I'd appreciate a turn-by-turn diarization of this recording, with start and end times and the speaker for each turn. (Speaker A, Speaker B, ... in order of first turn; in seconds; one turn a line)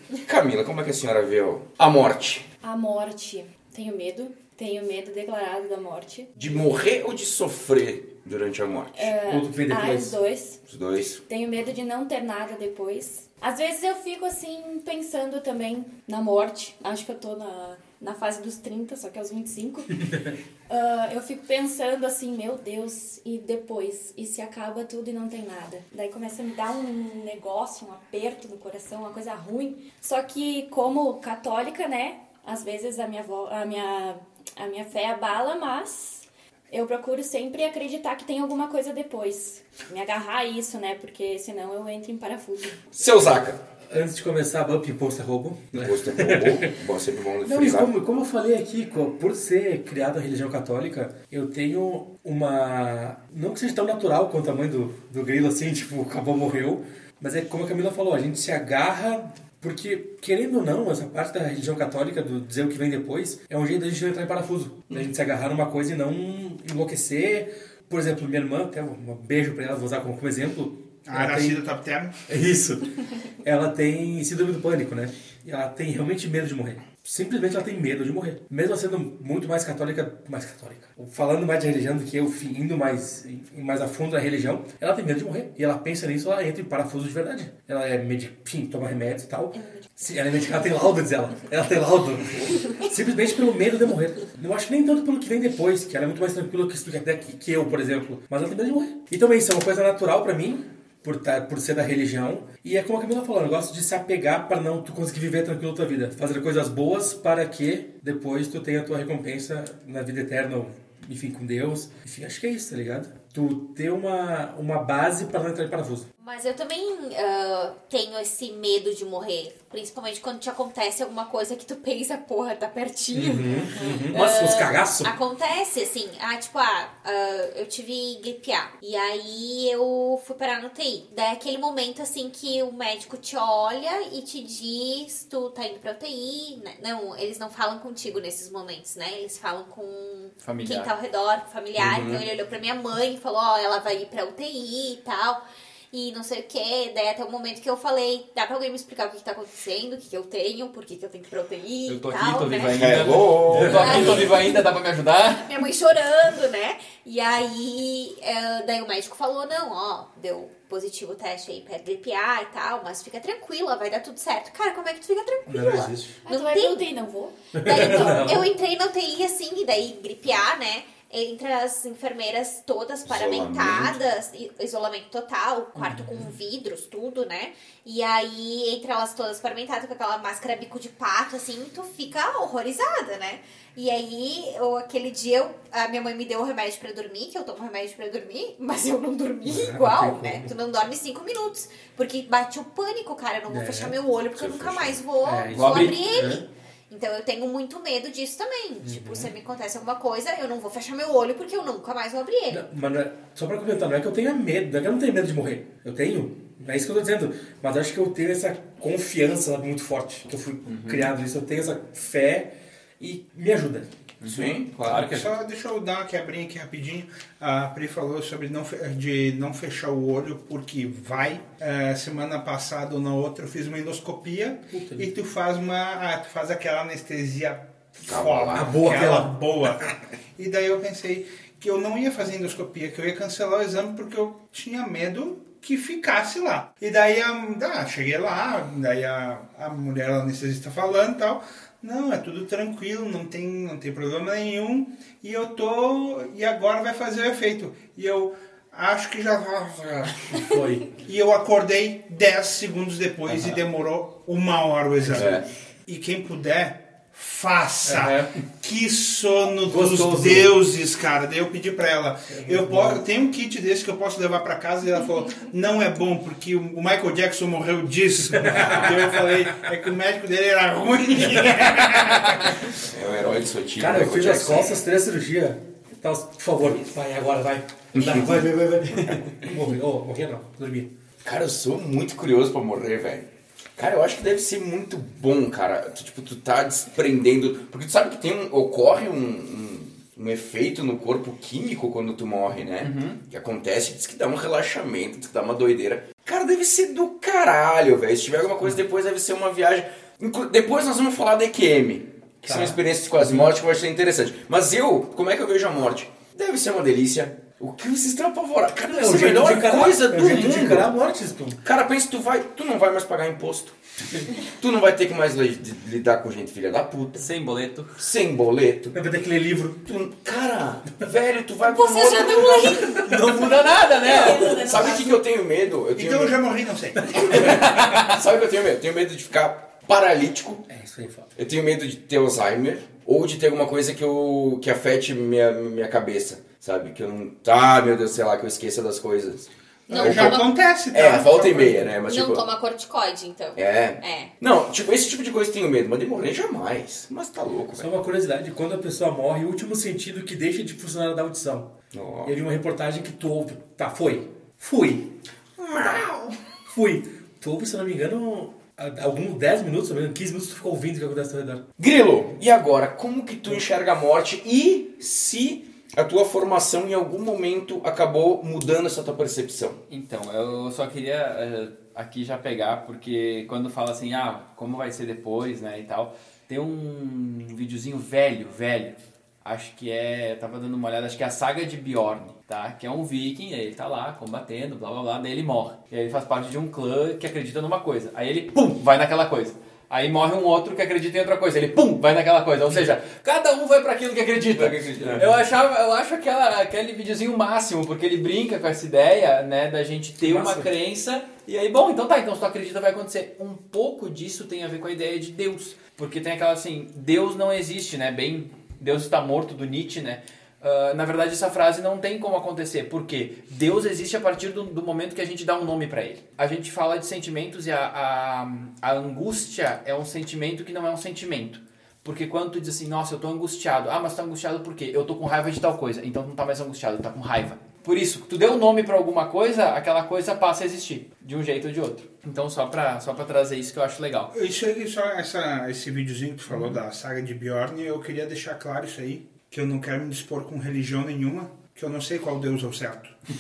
Speaker A: 0.2-2.5
Speaker B: 2.6-6.3
Speaker A: 6.3-9.1
Speaker B: 8.9-10.6
Speaker C: 9.2-10.1
Speaker A: 10.7-11.2
Speaker B: 11.3-20.1
Speaker B: 20.7-42.8
Speaker A: 42.9-43.6
Speaker C: 43.9-46.7
Speaker A: 45.7-47.9
Speaker C: 47.4-71.6
Speaker D: 71.1-72.2
Speaker C: 72.3-116.1
Speaker E: 116.2-153.1
Speaker C: 123.1-125.1
Speaker F: 140.4-140.9
Speaker A: 141.8-142.2
Speaker F: 151.9-155.5
Speaker A: 152.7-154.3
Speaker C: 153.5-154.0
Speaker E: 153.7-154.6
Speaker E: 155.3-166.9
Speaker C: 165.5-166.2
Speaker B: 166.2-168.3
Speaker C: 167.5-168.5
Speaker E: 167.6-202.6
Speaker A: 173.1-174.0
Speaker C: 189.4-190.5
Speaker C: 193.5-193.9
Speaker A: 194.3-195.0
Speaker C: 195.2-196.5
Speaker F: 195.5-195.9
Speaker C: 198.8-199.3
Speaker C: 202.5-213.9
Speaker F: 210.7-211.1
Speaker F: 214.2-215.3
Speaker A: 214.2-215.2
Speaker D: 214.9-272.7
Speaker C: 224.7-225.1
Speaker A: 228.1-228.8
Speaker C: 228.5-229.3
Speaker C: 250.3-250.9
Speaker A: 255.1-255.4
Speaker C: 257.8-258.3
Speaker C: 259.6-260.6
Speaker C: 262.3-263.0
Speaker C: 268.3-269.4
Speaker A: 268.5-269.1
Speaker A: 272.8-274.8
Speaker C: 273.8-280.9
Speaker A: 277.9-278.4
Speaker A: 281.2-310.9
Speaker F: 292.8-293.2
Speaker C: 302.4-303.5
Speaker C: 308.8-311.6
Speaker A: 311.6-313.7
Speaker A: 314.3-317.2
Speaker F: 317.1-318.0
Speaker A: 318.0-318.9
Speaker C: 318.9-319.8
Speaker A: 319.8-323.0
Speaker E: 321.7-323.0
Speaker F: 322.2-325.0
Speaker B: 323.3-325.1
Speaker A: 324.1-326.4
Speaker D: 325.9-327.2
Speaker A: 327.1-330.6
Speaker F: 327.3-328.2
Speaker C: 330.7-331.3
Speaker A: 331.4-339.5
Speaker D: 339.9-341.9
Speaker E: 339.9-340.5
Speaker A: 340.0-342.4
Speaker E: 342.0-344.3
Speaker A: 343.6-347.9
Speaker C: 347.7-355.1
Speaker A: 351.9-352.3
Speaker A: 355.6-356.4
Speaker C: 356.6-361.6
Speaker A: 361.8-369.8
Speaker F: 369.9-434.3
Speaker A: 394.5-395.3
Speaker C: 400.2-400.7
Speaker D: 434.3-443.2